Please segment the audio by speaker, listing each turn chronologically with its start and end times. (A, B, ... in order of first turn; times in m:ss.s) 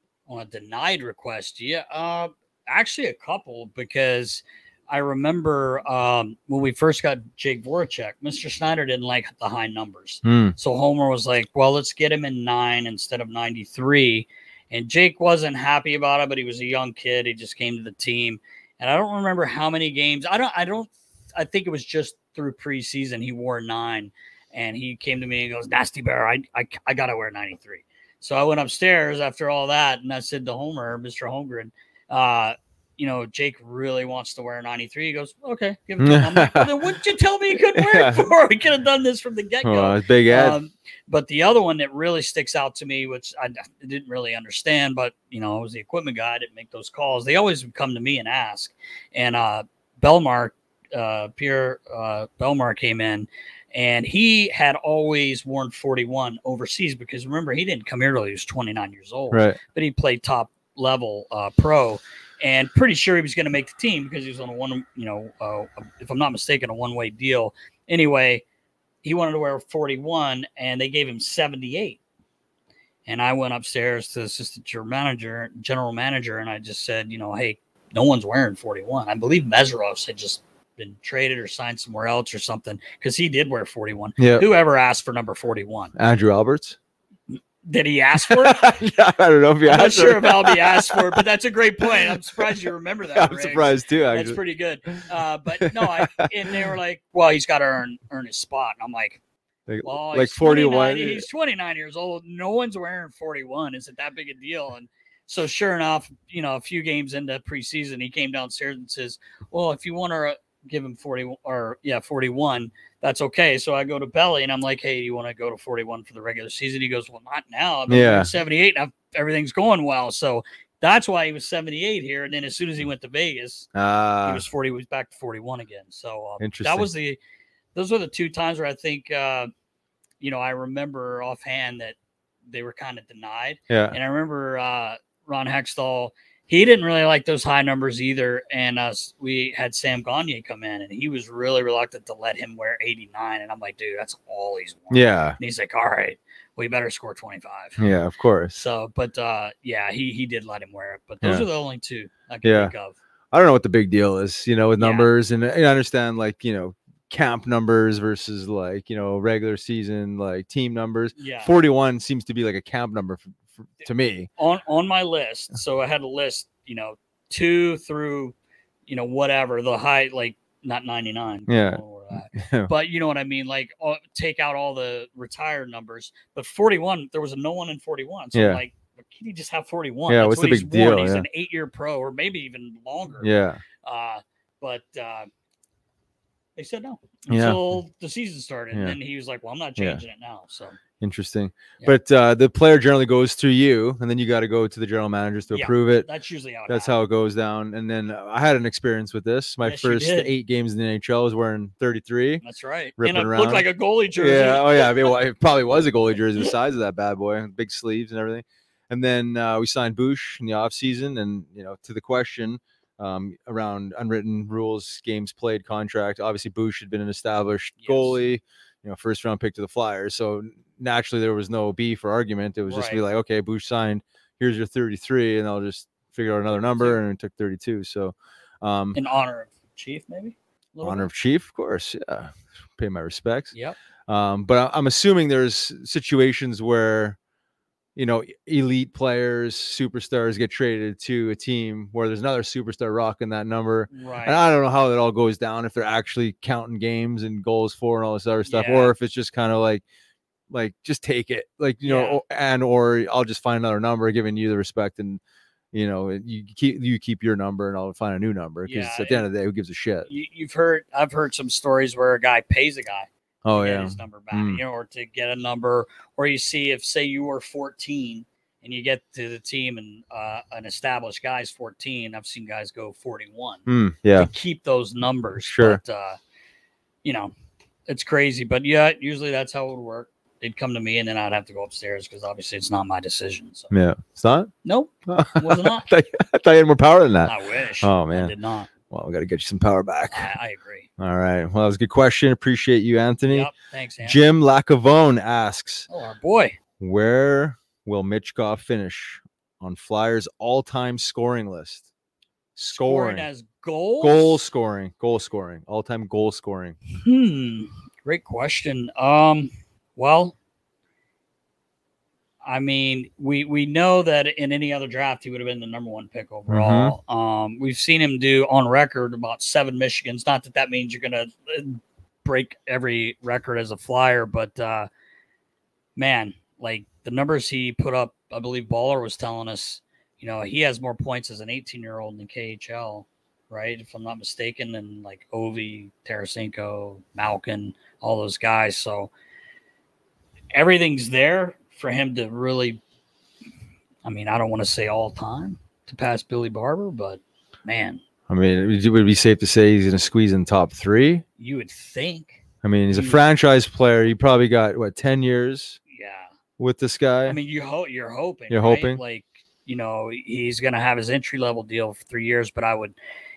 0:00.3-1:08.4 A
0:10.2-0:10.6 B
0:36.0-0:36.9 B
0:37.6-0:38.2 B
0:39.6-0:40.6 B
0:59.3-0:59.6 B
1:09.0-1:12.0 A
1:13.1-1:25.9 A
1:24.2-1:24.5 B
1:26.0-1:26.8 B
1:27.6-1:28.9 A
1:28.2-1:31.2 B
1:29.6-1:39.2 A
1:31.8-1:34.4 B
1:35.6-1:36.7 B
1:39.7-1:41.3 B
1:39.8-2:03.7 A
1:57.9-1:58.3 B
2:03.7-2:04.4 B
2:04.2-2:07.2 A
2:06.4-2:06.9 B
2:07.7-2:09.5 A
2:10.2-2:12.0 A
2:12.5-2:27.8 A
2:13.7-2:14.0 B
2:24.9-2:25.4 B
2:27.8-2:28.6 B
2:28.5-2:33.0 A
2:31.2-2:31.5 B
2:32.4-2:32.7 B
2:33.3-2:44.3 B
2:34.8-2:35.1 A
2:41.2-2:41.6 A
2:44.4-2:48.3 A
2:48.9-3:03.3 A
2:51.5-2:52.7 B
2:58.3-2:58.6 B
3:00.1-3:01.3 B
3:03.2-3:03.6 B
3:03.8-3:05.3 A
3:06.6-3:10.8 A
3:07.3-3:07.8 B
3:11.0-3:16.1 B
3:15.5-3:16.9 A
3:16.7-3:22.4 B
3:19.6-3:20.3 A
3:22.4-3:25.2 A
3:23.0-3:49.0 B
3:37.8-3:38.2 A
3:42.6-3:43.0 A
3:46.7-3:47.0 A
3:48.9-3:51.1 A
3:50.8-3:53.5 B
3:54.1-3:57.2 B
3:58.0-4:09.8 B
4:03.9-4:04.4 A
4:08.4-4:08.9 A
4:10.5-4:15.2 B
4:11.8-4:12.2 A
4:15.7-4:20.1 B
4:18.6-4:19.3 A
4:20.0-4:36.2 A
4:23.4-4:24.6 B
4:33.7-4:34.3 B
4:35.4-4:35.8 B
4:37.0-4:37.3 A
4:37.9-4:43.7 A
4:43.7-4:44.5 B
4:44.6-4:45.9 A
4:45.1-4:48.3 B
4:47.2-4:48.7 A
4:48.9-4:50.3 B
4:50.1-4:50.9 A
4:51.0-4:53.5 B
4:53.3-4:54.2 A
4:54.0-4:55.9 B
4:55.9-4:56.6 A
4:56.8-5:01.9 B
5:02.6-5:03.3 B
5:02.7-5:04.4 A
5:04.0-5:06.8 B
5:06.9-5:10.3 A
5:12.4-5:24.9 A
5:16.5-5:17.0 B
5:26.0-5:39.1 A
5:40.5-5:42.8 A
5:44.0-5:48.0 A
5:48.3-5:51.2 B
5:51.4-5:53.2 A
5:52.6-5:55.8 B
5:55.9-5:56.3 A
5:56.6-5:57.4 B
5:57.2-6:03.0 A
5:58.5-5:59.0 B